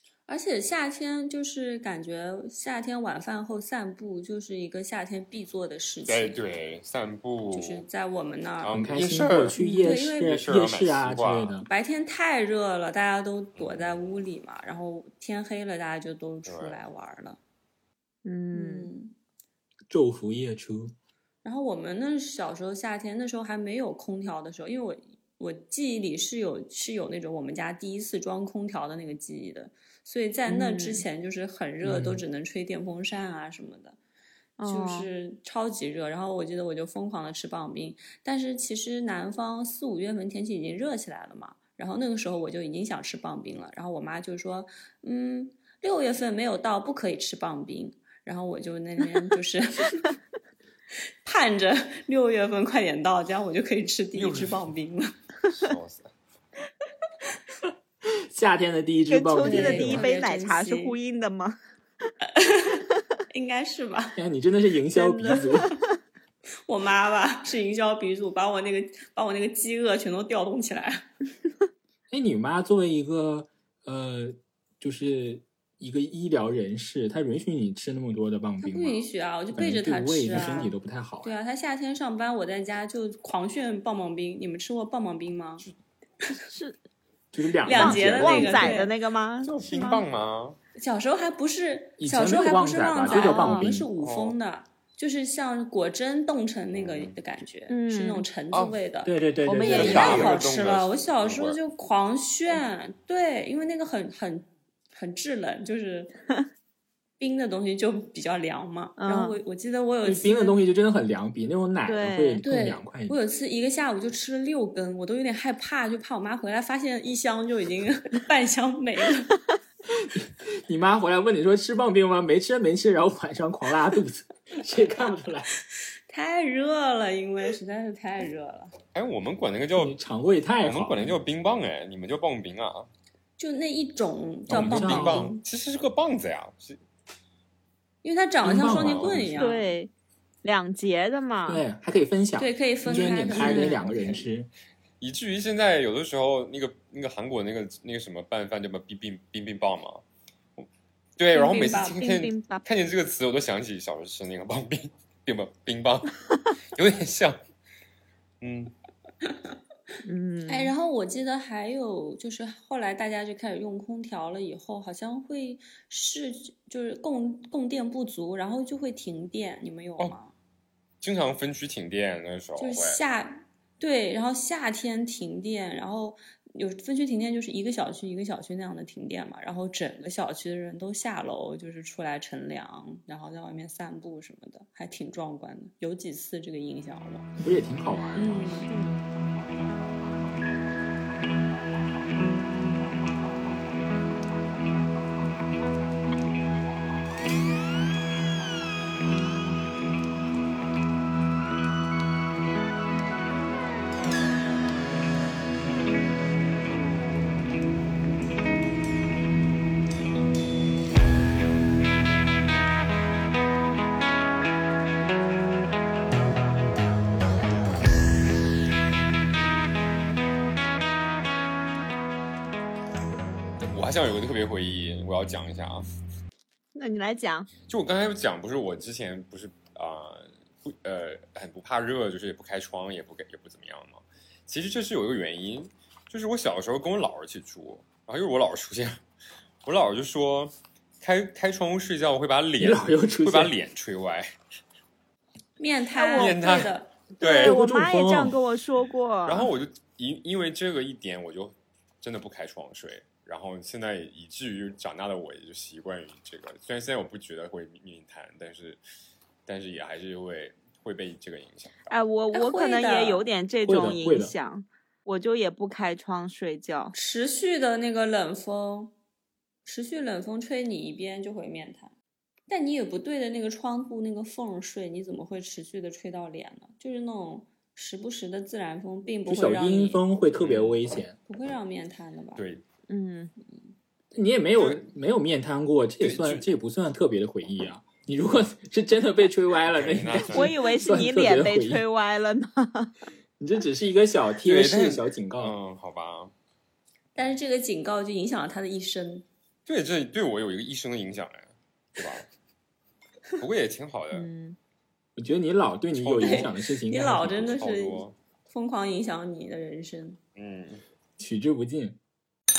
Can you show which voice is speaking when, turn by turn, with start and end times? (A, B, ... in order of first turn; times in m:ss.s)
0:00.3-0:06.4 A
0:06.1-0:07.8 B
0:07.5-0:08.9 A
0:08.6-0:09.6 B
0:08.7-0:11.7 C
0:09.6-0:10.4 A
0:09.6-0:10.0 D
0:10.2-0:11.6 B
0:11.7-0:17.4 A
0:13.6-0:13.9 B
0:16.5-0:16.8 B
0:18.2-0:18.9 D
0:18.5-0:19.1 A
0:19.9-0:21.0 C
0:21.4-0:34.0 A
0:30.5-0:31.1 D
0:31.8-0:32.2 C
0:34.6-0:35.1 D
0:34.6-0:50.0 A
0:51.2-0:55.1 A
0:54.2-0:54.6 B
0:55.5-0:56.1 B
0:58.1-1:00.1 C
0:59.1-1:01.6 D
0:59.4-1:01.0 A
1:02.4-1:04.2 A
1:04.2-1:05.8 C
1:04.9-1:05.8 D
1:06.7-1:11.0 A
1:12.1-1:21.4 C
1:18.6-1:25.6 A
1:26.5-1:26.8 D
1:27.3-1:28.9 C
1:27.6-1:28.9 A
1:27.7-1:30.0 D
1:29.4-1:30.6 B
1:30.8-1:46.1 A
1:32.0-1:33.9 C
1:33.1-1:33.7 D
1:34.0-1:34.4 B
1:36.7-1:37.2 B
1:37.7-1:38.3 D
1:38.5-1:38.8 B
1:39.0-1:40.4 C
1:39.5-1:40.3 D
1:39.6-1:41.6 B
1:47.2-1:50.6 A
1:49.0-1:49.4 D
1:50.0-1:53.2 C
1:51.8-1:52.4 D
1:52.4-1:59.3 A
1:59.9-2:05.5 C
2:06.1-2:08.7 A
2:08.9-2:10.0 B
2:09.8-2:11.2 C
2:10.6-2:12.9 B
2:13.4-2:15.4 A
2:14.5-2:15.3 C
2:14.5-2:16.8 B
2:18.0-2:19.7 A
2:18.4-2:19.5 C
2:18.6-2:19.2 B
2:19.4-2:19.9 D
2:20.4-2:21.6 D
2:21.5-2:24.5 C
2:22.4-2:23.9 A
2:22.9-2:24.3 B
2:23.4-2:23.8 D
2:25.0-2:30.0 B
2:30.6-2:36.2 B
2:31.3-2:32.1 A
2:32.0-2:32.6 D
2:36.8-2:37.4 B
2:38.4-2:38.7 B
2:40.0-2:40.7 D
2:40.5-2:50.3 A
2:51.0-2:53.0 B
2:52.6-3:07.3 A
3:07.4-3:08.4 C
3:08.2-3:08.7 A
3:08.6-3:09.0 D
3:43.6-3:45.9 B
3:46.8-3:47.5 D
3:47.7-3:59.0 B
3:59.6-4:04.3 B
4:02.6-4:03.6 C
4:05.6-4:06.9 A
4:06.0-4:06.4 D
4:06.1-4:07.6 B
4:07.2-4:09.5 D
4:07.4-4:08.4 C
4:09.2-4:18.8 B
4:19.5-4:21.9 B
4:21.9-4:26.9 D
4:22.3-4:23.3 A
4:23.6-4:24.4 C
4:26.9-4:28.9 A
4:29.6-4:31.9 A
4:32.5-4:40.0 A
4:39.3-4:41.2 C
4:40.4-4:40.8 B
4:41.3-4:42.4 A
4:42.4-4:42.6 B
4:42.9-4:43.3 D
4:44.1-4:51.8 C
4:44.6-4:44.9 B
4:46.0-4:46.4 B
4:49.6-4:50.7 B
4:50.3-4:52.9 D
4:53.4-4:55.6 C
4:54.4-4:56.3 B
4:57.2-4:59.2 A
4:59.7-5:02.3 B
5:03.4-5:04.3 B
5:04.1-5:04.6 D
5:05.2-5:07.6 C
5:05.9-5:06.5 B
5:06.2-5:10.2 A
5:07.2-5:08.2 B
5:10.4-5:10.8 B
5:11.2-5:12.0 C